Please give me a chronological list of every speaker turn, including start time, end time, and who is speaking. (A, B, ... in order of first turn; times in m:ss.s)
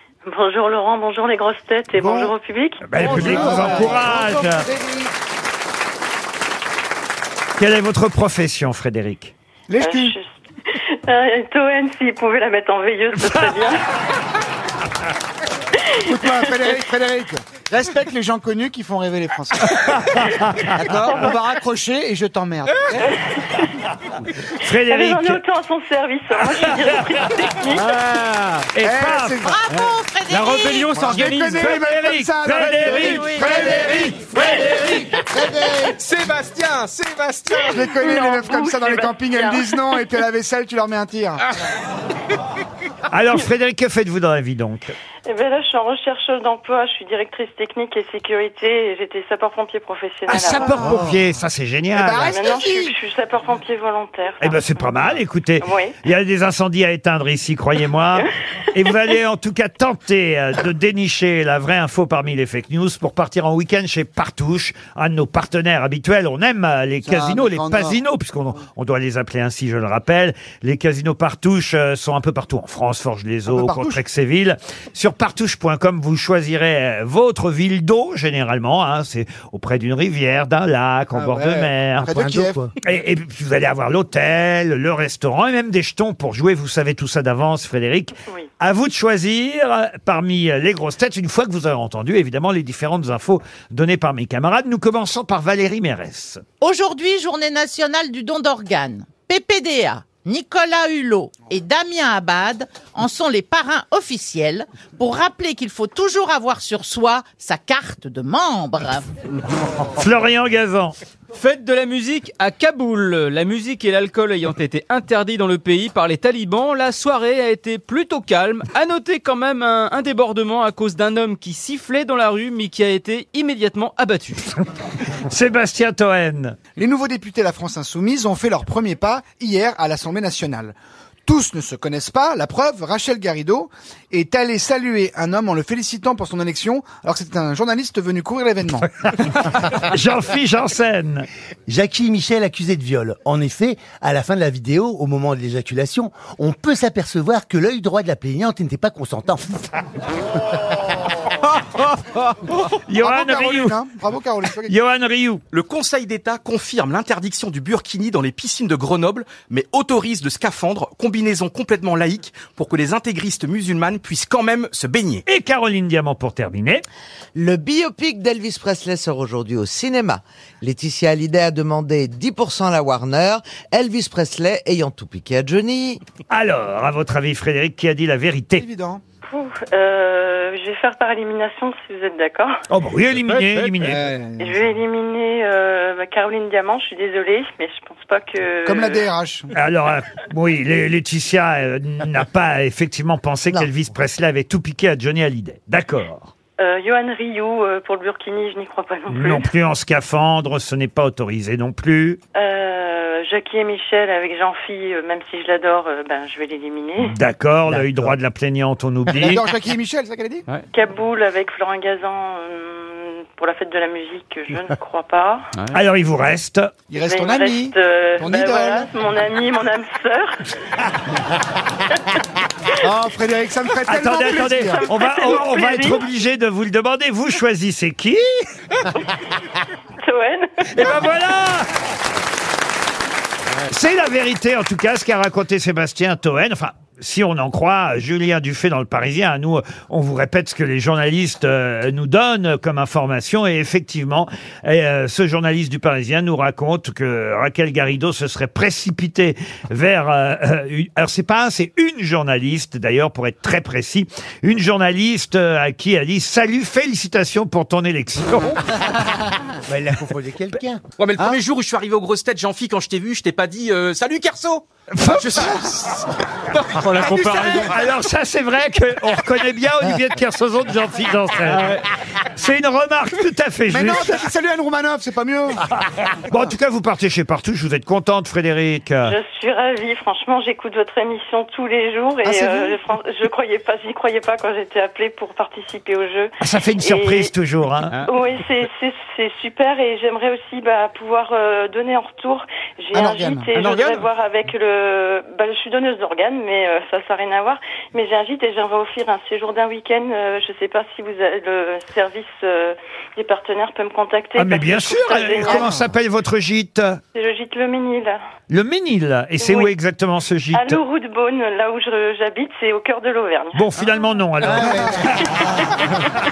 0:00.2-0:02.9 A
0:02.0-0:02.3 B
0:02.8-0:04.7 C
0:03.0-0:05.1 D
0:03.0-0:04.0 B
0:07.6-0:09.3 C
0:09.7-0:10.1 B
0:09.8-0:13.8 A
0:13.2-0:13.5 C
0:16.0-0:20.2 B
0:16.1-0:16.8 A
0:19.7-0:20.8 C
0:20.8-0:23.1 B
0:23.0-0:23.7 A
0:24.6-0:25.4 C
0:24.8-0:27.9 A
0:26.4-0:27.2 C
0:27.7-0:28.7 E
0:28.8-0:29.5 C
0:28.8-0:29.6 B
0:29.4-0:30.9 F
0:29.7-0:31.8 E
0:31.0-0:34.3 B
0:31.5-0:35.0 C
0:32.9-0:33.5 E
0:34.5-0:34.9 E
0:35.1-0:36.0 D
0:36.0-0:37.9 G
0:37.6-0:41.4 B
0:37.9-0:40.0 A
0:43.1-0:44.9 C
0:45.3-0:50.9 A
0:50.3-0:52.4 C
0:50.5-0:51.2 B
0:51.9-0:52.9 B
0:52.3-0:54.9 A
0:54.4-1:22.1 C
0:55.6-0:56.0 A
1:07.0-1:08.0 B
1:13.5-1:14.0 B
1:21.1-1:22.6 B
1:22.0-1:22.7 H
1:22.8-1:36.4 C
1:36.6-1:49.0 F
1:50.0-1:51.0 C
1:51.3-2:04.4 E
2:05.2-2:06.6 C
2:06.8-2:18.9 B
2:19.5-2:21.3 C
2:21.7-2:29.6 H
2:32.9-2:33.8 C
2:33.0-2:34.8 B
2:34.6-2:35.4 C
2:35.5-2:45.2 G
2:45.3-2:46.8 C
2:47.3-2:56.0 D
2:56.3-2:58.6 C
2:58.6-2:59.0 B
2:59.3-3:02.6 A
3:02.7-3:04.1 C
3:03.2-3:03.9 E
3:03.8-3:04.6 B
3:04.4-3:09.0 A
3:08.6-3:09.5 B
3:09.5-3:16.3 C
3:16.6-3:19.5 A
3:19.1-3:22.2 C
3:22.3-3:27.2 A
3:27.0-3:29.4 C
3:27.7-3:28.1 H
3:29.1-3:30.4 B
3:30.7-3:35.5 A
3:35.7-3:36.8 C
3:36.9-3:38.9 B
3:37.0-3:40.4 A
3:42.8-3:44.9 B
3:43.9-3:48.4 C
3:44.6-3:46.0 A
3:50.0-3:51.1 A
3:50.7-3:51.7 C
3:53.7-4:19.0 C
4:19.7-4:20.8 H
4:21.0-4:26.8 G
4:25.0-4:25.5 C
4:25.0-4:25.7 B
4:26.7-4:27.7 E
4:27.0-4:27.7 B
4:27.5-4:31.8 C
4:31.4-4:31.8 E
4:32.3-4:34.3 C
4:33.7-4:35.6 B
4:36.3-4:39.1 C
4:39.0-4:47.3 A
4:42.2-4:42.8 B
4:46.4-4:48.0 C
4:48.0-5:05.8 A
4:52.9-4:53.5 B
4:53.5-4:54.1 G
5:04.4-5:07.0 C
5:05.5-5:05.8 B
5:07.1-5:08.2 A
5:08.5-5:10.8 C
5:09.4-5:09.7 A
5:10.5-5:13.7 A
5:13.5-5:15.2 C
5:14.4-5:15.0 H
5:14.5-5:15.0 B
5:15.1-5:15.9 A